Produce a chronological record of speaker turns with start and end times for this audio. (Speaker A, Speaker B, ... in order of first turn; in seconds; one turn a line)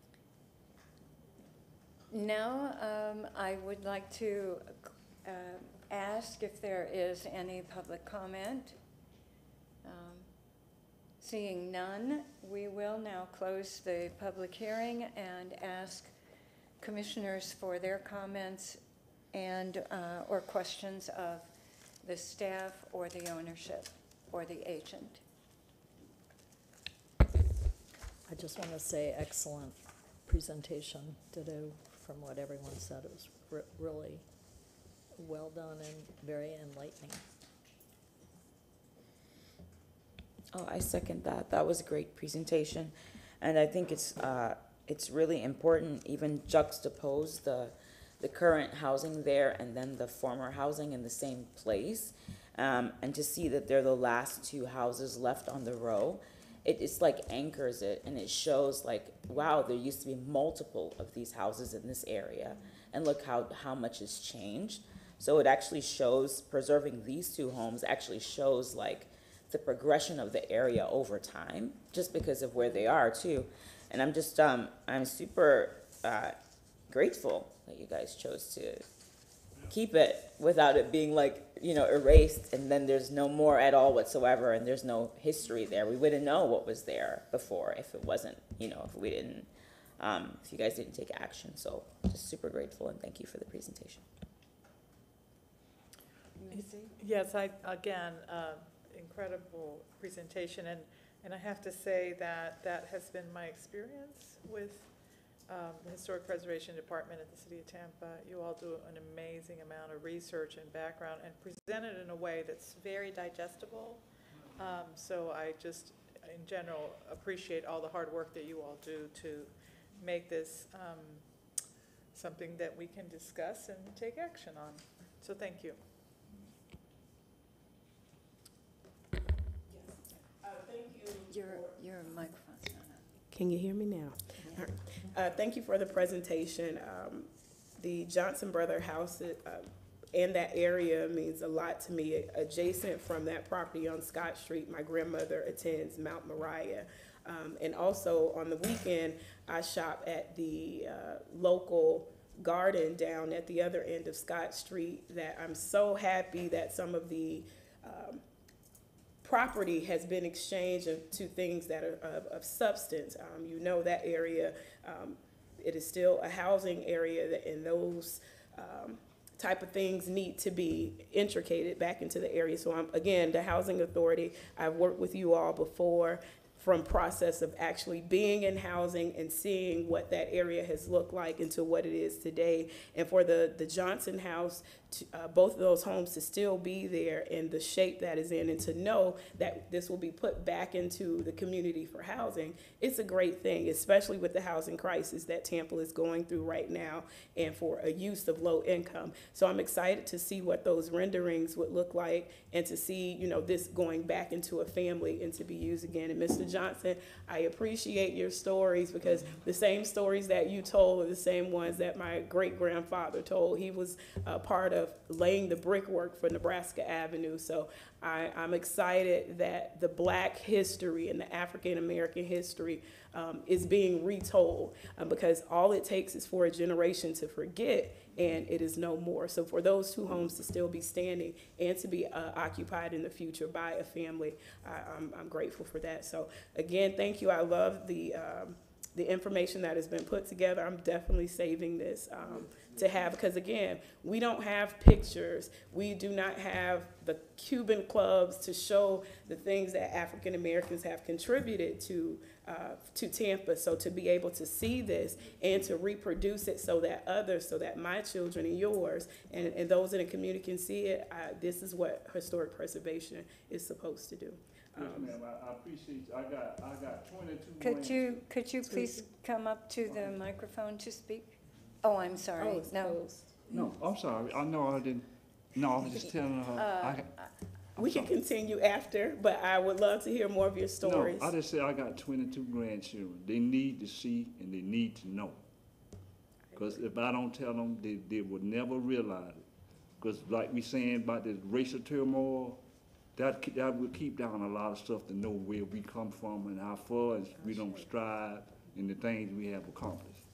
Speaker A: 2.1-8.8
Speaker A: 9.8-10.3
Speaker A: 11.2-16.1
Speaker A: 16.8-18.8
Speaker A: 19.3-21.5
Speaker A: 22.0-25.2
Speaker B: 28.3-34.2
Speaker B: 35.2-37.3
Speaker C: 40.5-76.4
Speaker C: 76.9-78.9
Speaker C: 79.7-94.0
Speaker A: 96.4-96.9
Speaker D: 96.5-104.9
Speaker D: 105.5-114.0
Speaker D: 114.5-121.2
Speaker D: 122.1-125.8
Speaker E: 130.4-131.2
Speaker A: 131.3-132.8
Speaker E: 133.3-158.2
Speaker A: 134.4-134.7
Speaker E: 159.2-265.2
Speaker F: 264.7-268.2
Speaker A: 267.6-273.1
Speaker E: 272.4-273.4
Speaker F: 273.5-277.1
Speaker A: 276.5-277.3
Speaker E: 277.8-281.3
Speaker F: 277.8-278.2
Speaker F: 280.8-285.4
Speaker F: 286.5-289.4
Speaker F: 290.0-292.6
Speaker F: 293.1-300.2
Speaker E: 297.4-297.9